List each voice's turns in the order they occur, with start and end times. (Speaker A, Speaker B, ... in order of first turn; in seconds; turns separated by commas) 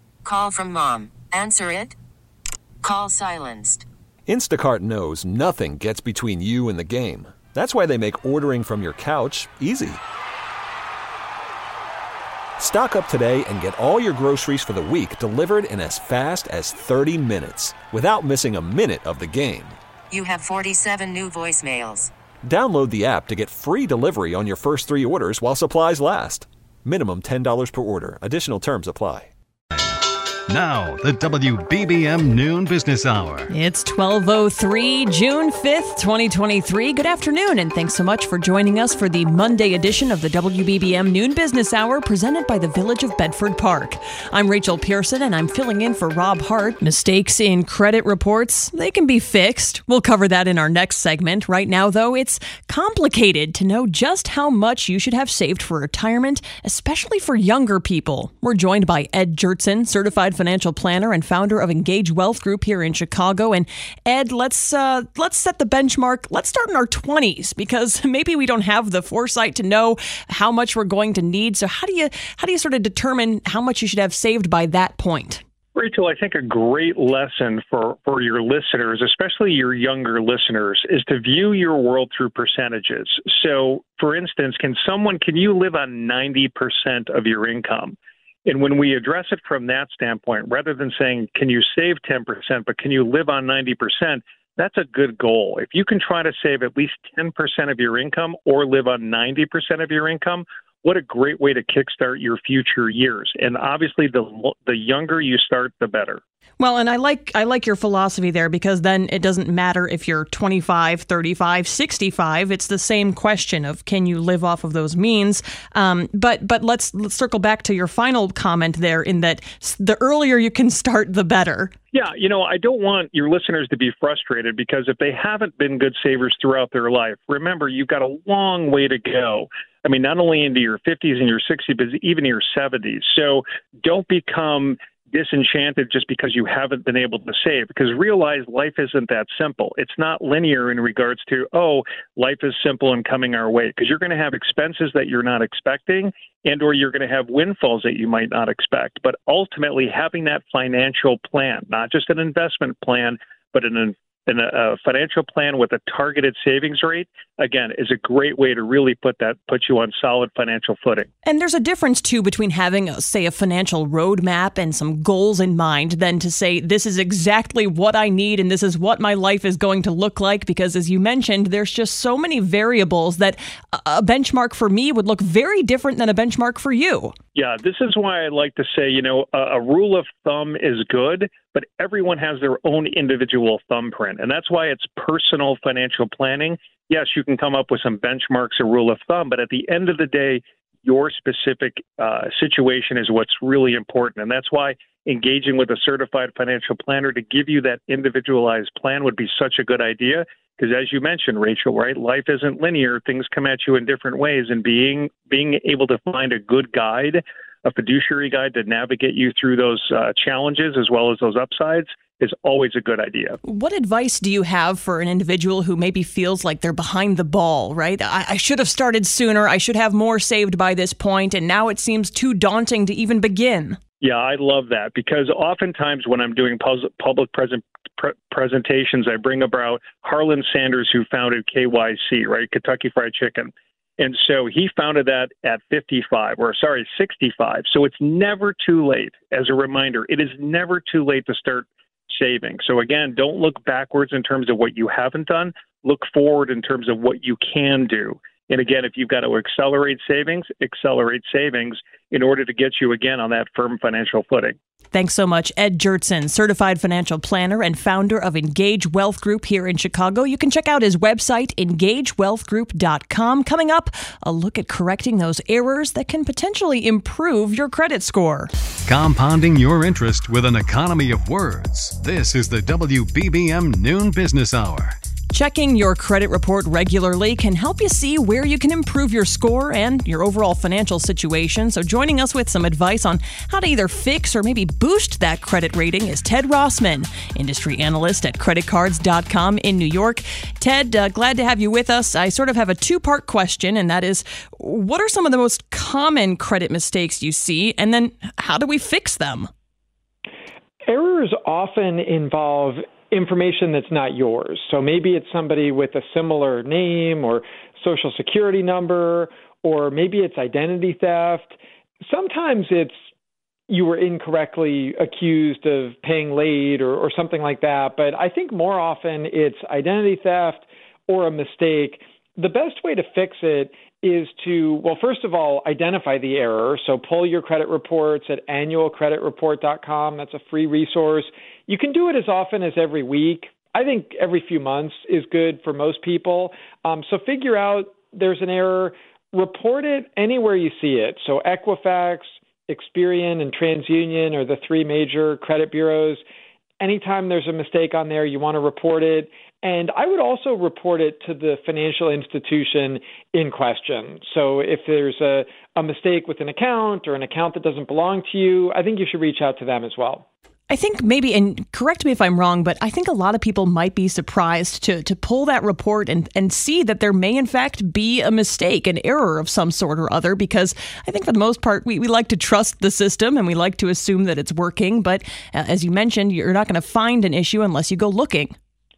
Speaker A: 0.2-2.0, Speaker A: 2.8-3.9, Speaker B: 4.3-10.0, Speaker B: 12.6-19.8, Speaker A: 20.1-22.1, Speaker B: 22.4-29.3, Speaker C: 30.5-33.5, Speaker D: 33.5-75.4, Speaker E: 75.7-106.2, Speaker D: 106.6-121.7, Speaker E: 121.9-161.1, Speaker D: 161.2-177.1, Speaker E: 177.3-213.4, Speaker D: 213.4-223.8, Speaker E: 224.0-254.6, Speaker D: 254.9-268.5, Speaker C: 268.9-274.9, Speaker D: 275.3-299.5, Speaker F: 300.9-312.9, Speaker F: 313.7-346.2, Speaker F: 346.8-360.2, Speaker D: 360.7-378.6